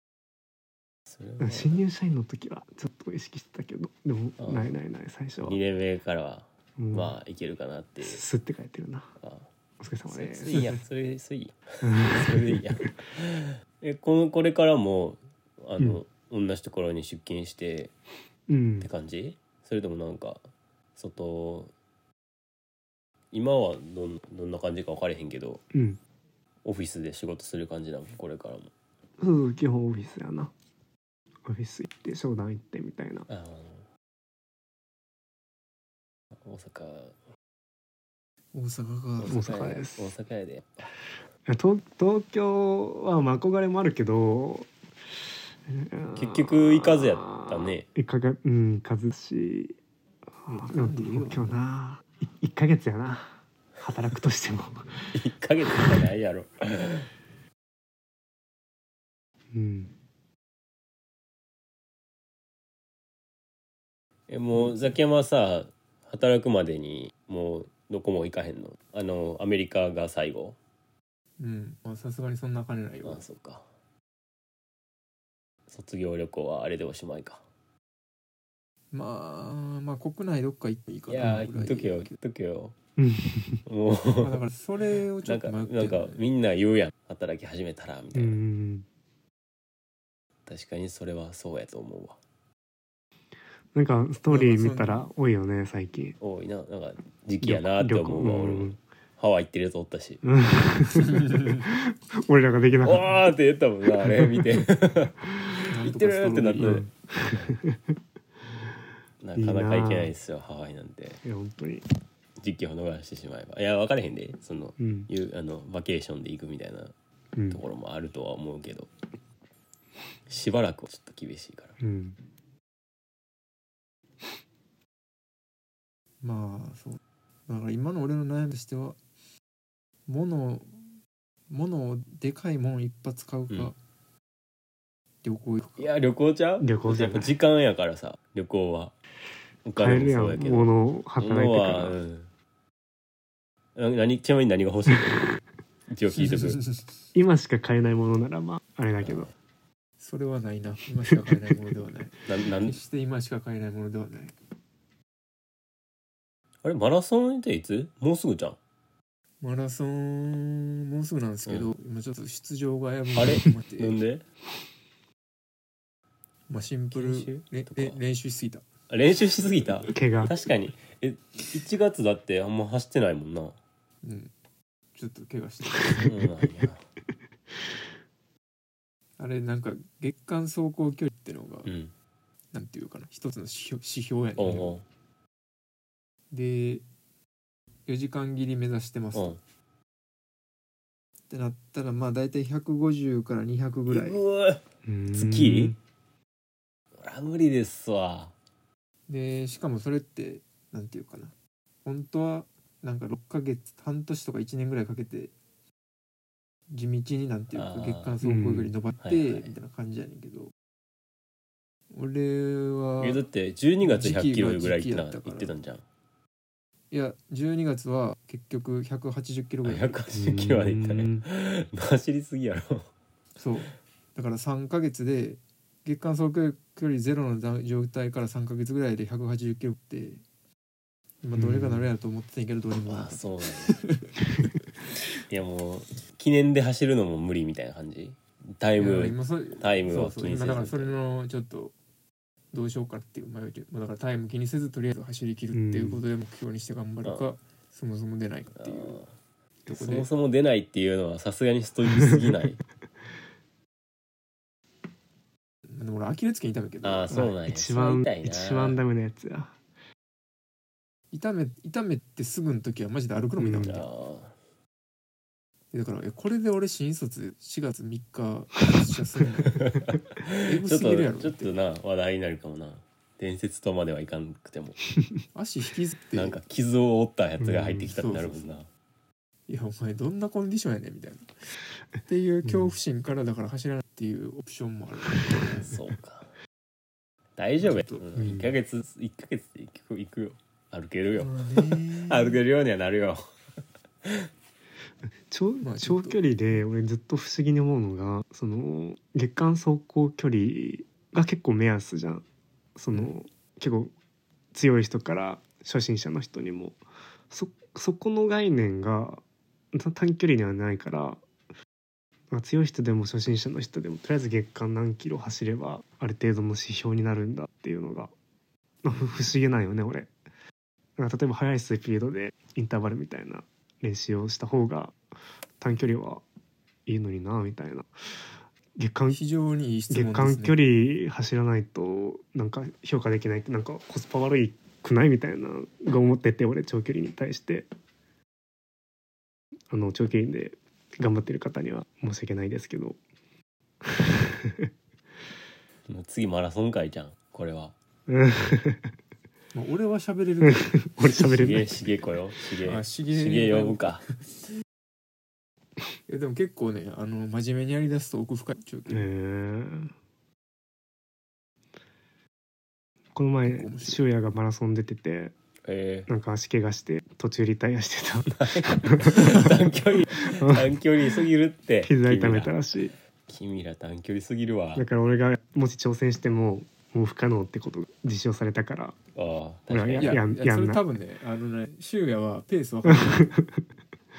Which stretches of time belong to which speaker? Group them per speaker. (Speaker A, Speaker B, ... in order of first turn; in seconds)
Speaker A: 1.1-1.8, 4.4-4.7, 5.4-8.2, 10.1-17.9, 18.8-21.7, 23.3-25.6, 26.6-28.7, 33.3-33.9, 36.4-37.1, 39.2-40.8, 46.1-47.9, 55.1-57.1, 64.3-70.6, 73.0-73.7, 75.7-77.4, 81.1-82.8, 83.7-84.4, 85.2-88.4, 90.5-92.2, 96.2-100.3, 102.8-107.6, 109.2-111.2, 112.4-116.9, 117.5-118.9, 120.3-121.8, 135.8-138.9, 139.7-142.3, 143.8-145.3, 145.9-146.6, 149.0-149.3, 152.2-152.8, 156.6-158.6, 163.2-164.2, 166.9-168.0, 168.9-173.6, 175.9-176.8, 181.7-181.9, 184.4-184.8, 189.1-189.4, 193.9-195.8, 197.0-198.3, 207.5-208.2, 209.0-209.5, 213.0-215.8, 219.6-222.9, 232.9-233.8, 235.3-241.0, 248.6-249.1, 249.7-252.6, 256.8-258.8, 263.6-264.3, 269.6-274.8, 276.1-278.7, 285.6-286.3, 287.4-293.2, 345.9-347.7, 351.2-354.1, 365.6-366.1, 368.3-372.5, 373.3-374.9, 379.1-380.2
Speaker B: 1.4-5.6, 6.8-7.1, 8.0-9.1, 9.8-10.6, 11.8-12.9, 18.5-18.9, 25.7-26.0, 29.2-30.5, 31.4-33.3, 39.3-40.1, 41.5-44.7, 45.7-49.8, 50.6-55.1, 59.5-59.9, 83.0-83.6, 88.1-88.9, 93.7-96.2, 97.4-98.8, 100.2-103.3, 104.0-104.6, 106.6-107.9, 109.4-110.1, 111.2-111.8, 114.8-115.1, 117.4-117.6, 121.8-122.2, 136.6-137.3, 139.8-142.0, 147.2-149.3, 169.9-170.3, 176.0-176.7, 194.8-195.8, 208.2-208.7, 220.2-221.2, 231.4-231.9, 245.5-246.0, 257.1-259.5, 263.4-263.8, 277.4-277.9, 288.2-288.6, 295.3-302.2, 302.8-303.9, 304.5-306.8, 307.3-311.2, 312.3-318.1, 318.8-320.1, 321.0-325.0, 325.6-326.2, 326.9-327.9, 328.8-329.2, 329.9-337.7, 339.7-343.0, 343.8-344.7, 348.1-348.9, 350.5-351.7, 358.9-359.9, 363.1-365.3, 366.1-369.7, 370.3-370.7, 371.9-372.9, 374.8-379.0, 379.7-380.8, 382.9-383.6
Speaker C: 10.5-10.8, 38.5-39.5, 50.5-51.5, 71.4-73.2, 78.9-82.1, 84.2-86.2, 94.3-95.1, 105.7-106.8, 126.2-129.0, 130.1-130.8, 131.5-133.8, 135.2-135.9, 146.1-146.9, 150.0-154.3, 159.4-164.0, 166.5-168.7, 174.0-174.3, 174.9-176.1, 179.2-181.7, 182.5-184.8, 186.3-186.8, 187.9-189.4, 191.3-194.2, 199.1-201.3, 201.8-205.3, 206.7-210.5, 211.9-213.2, 213.8-215.5, 216.9-220.3, 223.4-230.2, 231.2-234.2, 238.8-241.7, 242.5-249.0, 249.7-250.1, 255.7-257.3, 261.1-263.9, 265.7-269.7, 270.4-271.5, 275.3-276.4, 277.9-278.4, 279.5-281.3, 282.1-285.8, 287.6-288.0, 291.2-292.4, 295.6-296.2, 329.1-330.6, 349.5-350.9, 352.6-354.1, 356.1-359.1, 363.4-364.0, 380.0-383.4